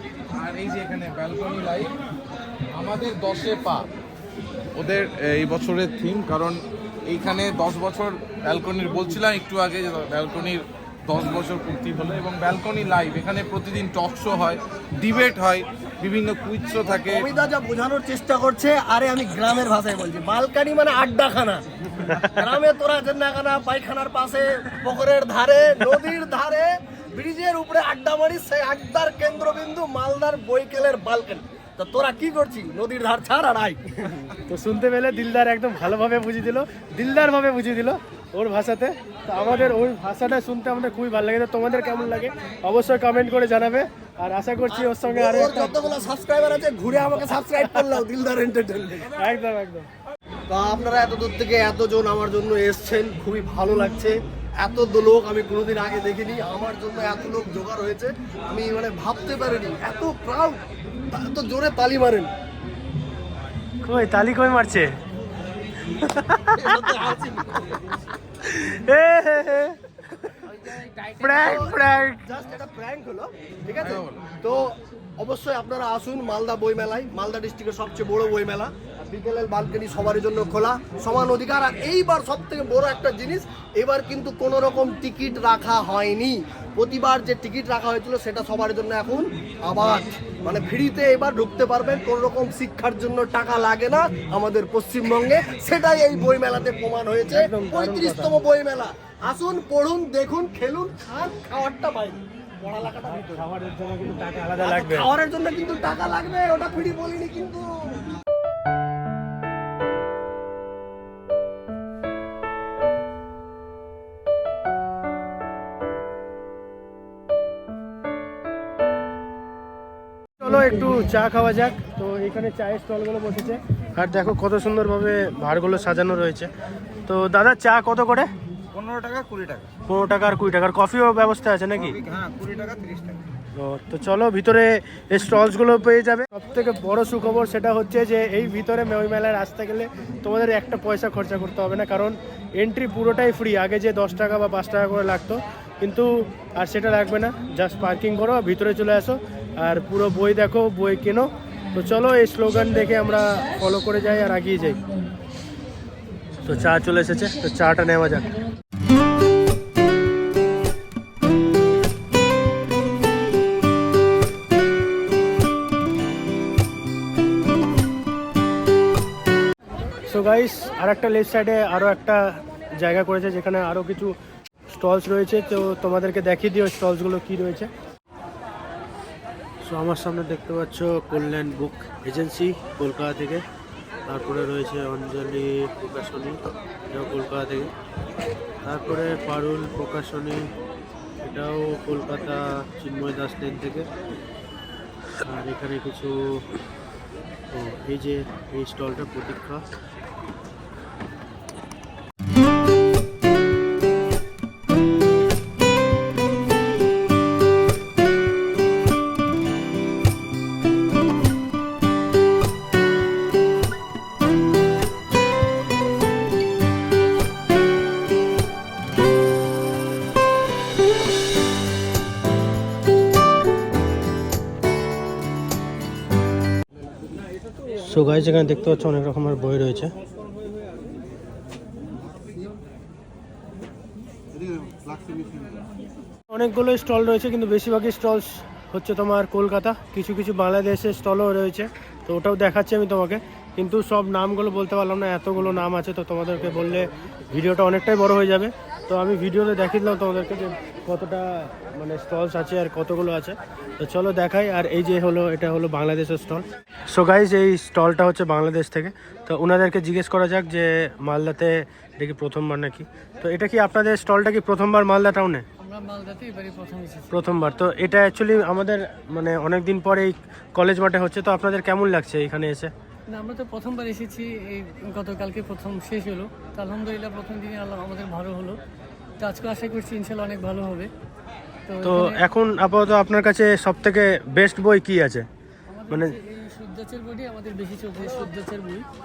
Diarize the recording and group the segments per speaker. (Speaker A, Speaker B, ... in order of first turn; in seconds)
Speaker A: 0.4-1.9, 2.7-3.9, 4.8-17.3, 73.8-74.3
Speaker B: 16.9-34.1, 44.7-49.1, 50.5-62.3, 66.5-67.8, 71.0-103.5, 104.6-107.7
Speaker C: 34.5-45.8, 49.1-49.9, 63.9-64.9, 65.9-66.8, 68.5-69.8, 71.2-72.2, 97.3-98.3, 103.1-105.1, 120.4-126.5, 127.1-128.3, 129.9-132.0, 133.6-154.8, 156.4-158.3, 170.1-174.2, 174.7-177.7, 179.7-183.4, 184.1-187.7, 188.7-190.5, 191.2-193.9, 195.2-196.4, 197.5-199.6, 227.8-229.9, 236.3-265.4, 267.1-272.7, 281.8-285.3
Speaker D: 128.7-129.7, 131.8-133.2
Speaker E: 265.6-267.2, 273.1-278.6, 279.2-280.9, 281.7-282.2, 285.7-288.9